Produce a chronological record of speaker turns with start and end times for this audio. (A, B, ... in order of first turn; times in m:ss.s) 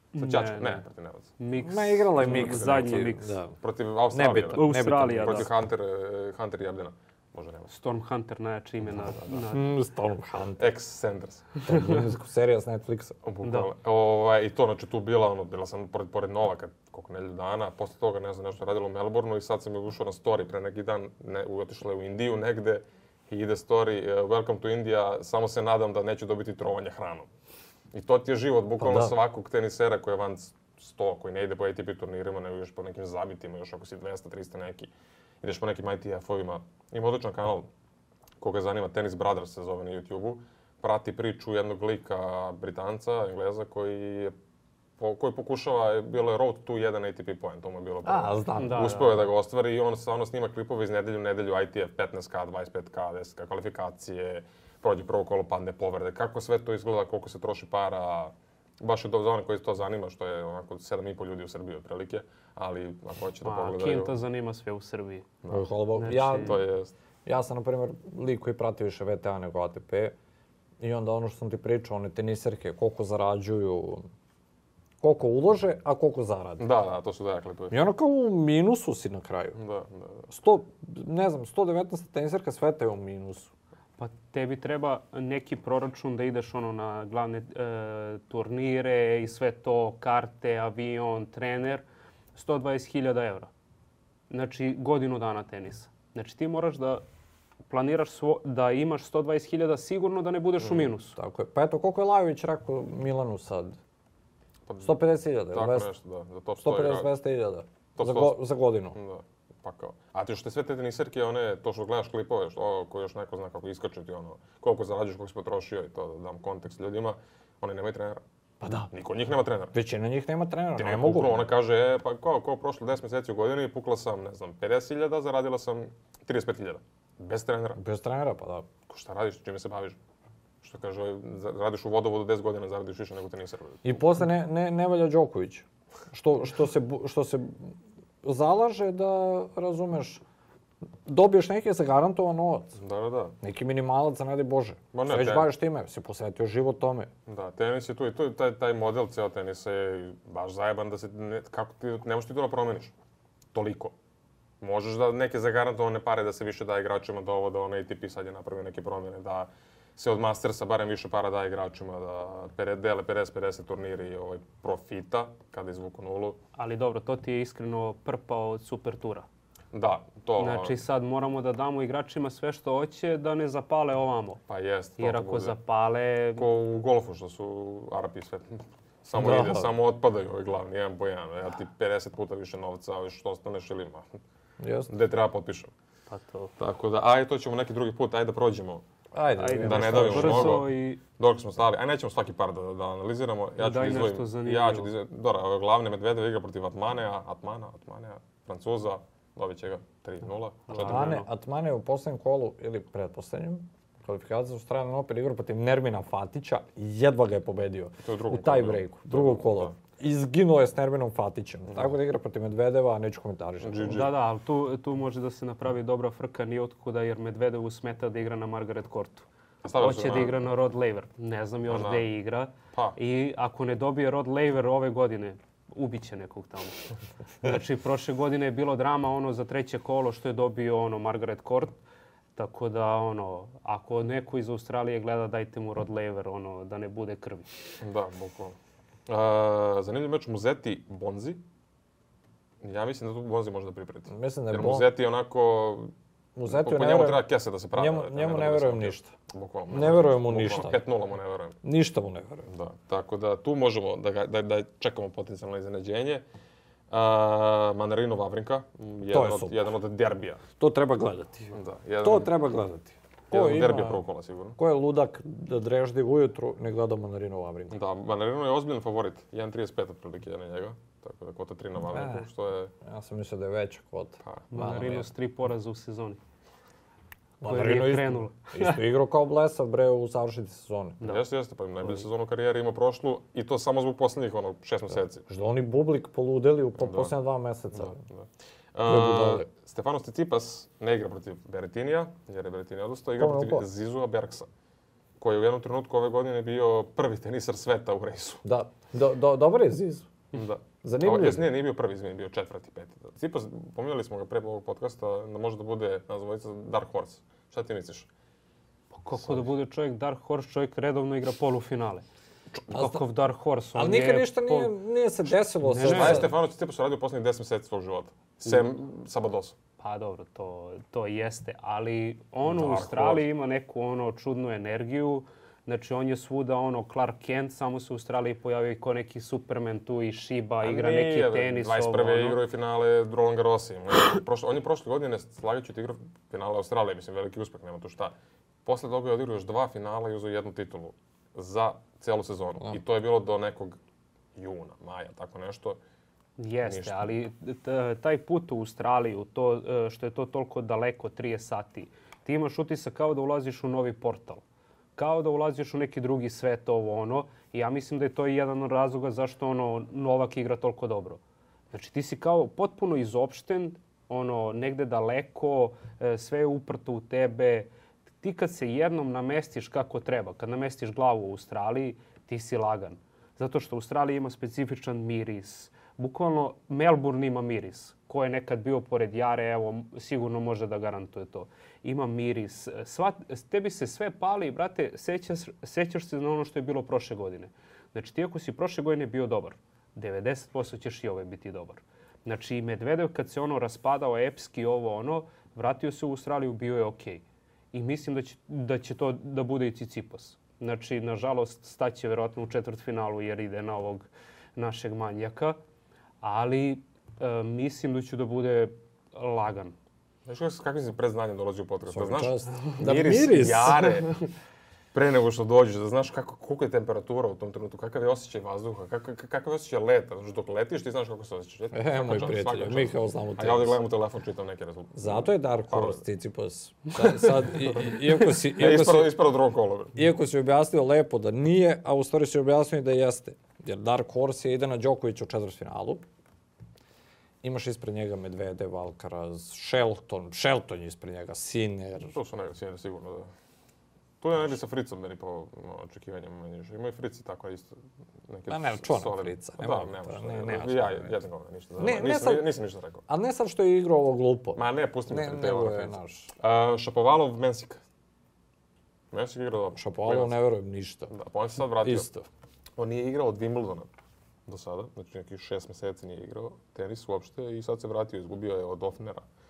0:00.1-0:00.8 A
0:00.2-0:01.3 B
0:01.4-0:03.4 A
0:01.6-0:03.6 C
0:02.2-0:03.1 B
0:03.6-0:07.7 B
0:04.1-0:05.5 C
0:04.5-0:05.5 A
0:07.7-0:09.6 A
0:09.0-0:09.5 B
0:09.5-0:10.7 C
0:10.6-0:11.6 B
0:11.6-0:13.2 C
0:11.7-0:12.0 A
0:13.2-0:27.3 B
0:13.4-0:13.7 A
0:27.9-0:37.7 B
0:28.8-0:29.2 C
0:38.4-0:44.3 B
0:45.0-1:04.2 B
0:48.0-0:49.0 C
0:48.5-0:49.2 A
1:03.4-1:05.3 A
1:05.4-1:05.7 B
1:05.5-1:06.6 C
1:05.9-1:06.6 A
1:06.3-1:06.9 B
1:07.2-1:10.2 C
1:10.8-1:14.1 C
1:15.0-1:16.7 C
1:16.6-1:17.8 B
1:17.7-1:19.6 C
1:19.5-1:20.3 B
1:20.3-1:23.5 C
1:24.0-1:31.8 A
1:32.3-1:33.5 A
1:34.3-1:37.0 A
1:37.7-1:41.2 A
1:41.2-1:43.8 C
1:44.7-1:47.1 B
1:44.8-1:45.9 C
1:46.6-1:49.0 C
1:48.0-1:58.2 B
1:58.6-1:58.9 C
1:58.9-1:59.7 B
1:59.7-2:01.5 C
2:00.8-2:07.8 B
2:07.8-2:08.7 C
2:08.9-2:10.0 B
2:10.6-2:14.0 B
2:13.8-2:20.2 C
2:21.0-2:22.8 C
2:22.8-2:23.3 B
2:23.4-2:27.1 C
2:24.9-2:25.5 B
2:27.3-2:32.9 B
2:33.5-2:33.9 B
2:34.6-2:46.4 B
2:46.6-2:49.2 A
2:49.7-2:50.8 B
2:50.4-2:54.4 A
2:54.5-2:55.6 B
2:55.0-2:56.5 A
2:56.4-3:04.1 B
2:59.1-2:59.7 C
3:04.6-3:04.9 C
3:04.9-3:05.7 B
3:06.1-3:06.5 A
3:06.6-3:08.8 B
3:09.1-3:10.6 C
3:09.4-3:11.0 A
3:09.6-3:21.2 B
3:13.6-3:14.9 A
3:20.7-3:21.3 A
3:20.8-3:34.1 C
3:28.0-3:29.7 B
3:31.7-3:32.0 B
3:33.6-3:34.2 B
3:33.9-3:46.8 A
3:39.6-3:40.4 B
3:41.7-3:42.1 B
3:47.4-3:51.8 A
3:52.4-3:57.5 A
3:57.8-3:58.6 B
3:59.1-4:01.4 B
4:02.6-4:05.9 B
4:04.1-4:04.9 C
4:06.4-4:09.1 C
4:06.5-4:11.6 B
4:09.7-4:10.8 C
4:11.6-4:12.5 C
4:12.5-4:16.2 B
4:16.9-4:20.4 B
4:19.1-4:19.6 C
4:20.6-4:24.0 C
4:21.5-4:22.4 B
4:23.3-4:24.6 B
4:24.6-4:27.8 C
4:27.7-4:32.7 B
4:31.9-4:32.3 C
4:32.8-4:35.1 C
4:34.2-4:34.7 B
4:34.5-4:36.2 A
4:37.4-4:41.0 C
4:37.4-4:38.8 A
4:41.0-4:45.2 B
4:45.3-4:48.0 C
4:46.8-4:47.1 B
4:47.7-4:54.5 B
4:48.8-4:49.5 C
4:53.2-4:53.7 C
4:55.2-4:58.4 B
4:58.4-5:00.1 C
5:00.3-5:08.1 B
5:00.8-5:01.5 C
5:08.9-5:12.0 A
5:09.2-5:09.5 B
5:12.7-5:14.8 A
5:12.7-5:13.0 C
5:13.7-5:16.3 C
5:15.6-5:16.3 A
5:15.8-5:19.6 B
5:19.8-5:32.4 A
5:22.4-5:23.2 B
5:30.6-5:43.8 B
5:44.4-5:45.8 B
5:46.4-5:54.4 A
5:46.6-5:47.1 B
5:55.0-6:01.2 A
6:01.7-6:07.7 A
6:08.2-6:45.6 A
6:46.2-6:49.8 A
6:50.2-6:54.2 B
6:51.9-6:54.1 C
6:54.9-7:06.0 B
7:01.7-7:03.8 C
7:05.0-7:09.2 C
7:08.3-7:10.0 B
7:09.9-7:16.0 C
7:17.4-7:22.2 C
7:22.0-7:23.3 B
7:24.2-7:27.7 B
7:28.3-7:33.0 B
7:28.5-7:31.1 C
7:31.8-7:32.5 C
7:33.1-7:36.3 C
7:34.6-7:37.8 B
7:39.1-7:40.4 B
7:39.7-7:41.1 C
7:41.1-7:42.1 B
7:41.8-7:42.3 C
7:42.8-7:43.9 B
7:44.5-7:49.2 B